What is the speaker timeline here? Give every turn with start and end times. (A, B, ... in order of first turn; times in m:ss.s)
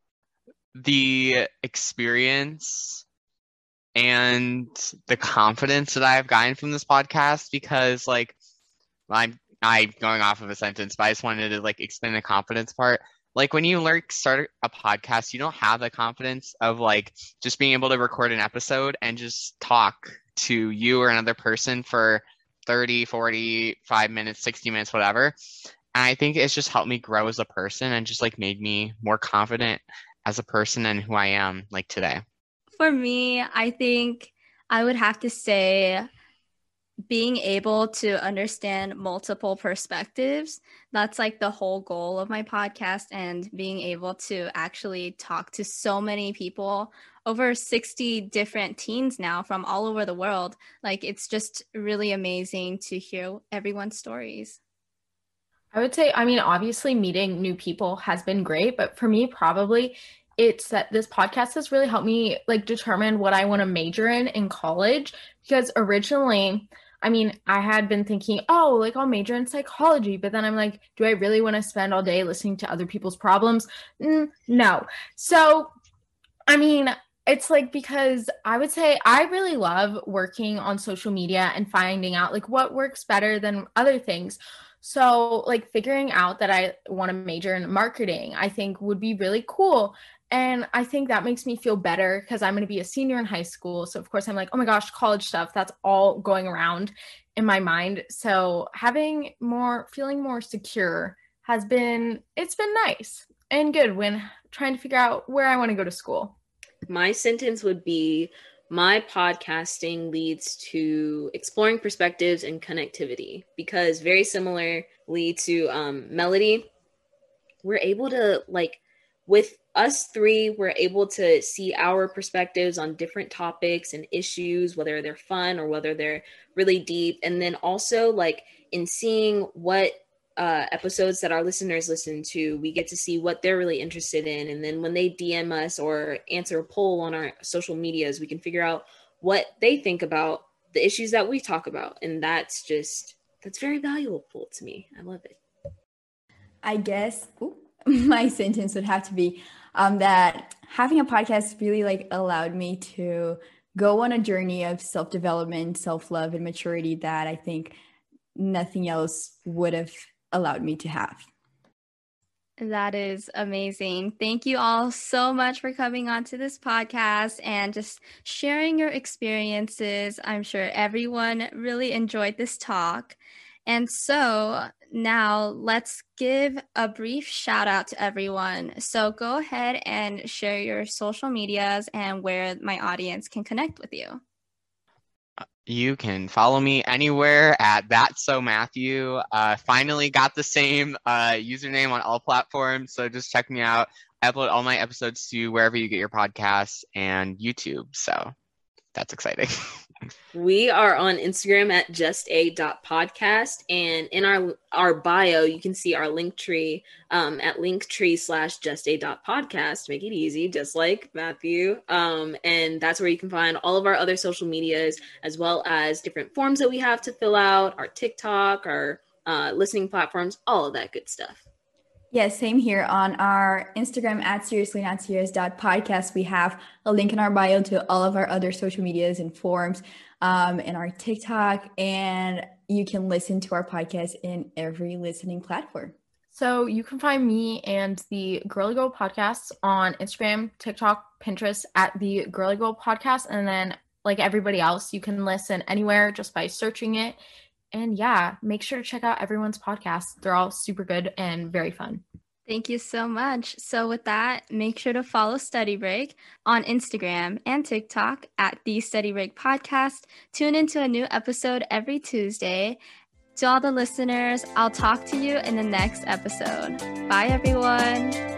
0:00.8-0:03.0 A
0:04.0-0:08.4 A
0:09.1-0:25.3 A
0:25.9-0:32.2 A
0:32.8-0:36.1 B
0:37.1-0:54.6 B
0:55.7-1:15.7 C
1:16.5-1:46.4 C
1:46.9-1:56.7 D
1:57.6-2:25.4 D
2:26.6-2:37.8 E
2:38.4-2:41.3 E
2:42.6-3:04.2 B
3:05.7-3:18.3 A
3:19.0-3:19.8 A
3:20.3-3:41.4 D
3:42.1-3:56.0 E
3:56.3-4:07.2 C
4:07.7-4:12.0 C
4:12.5-4:22.8 B
4:23.4-4:28.2 B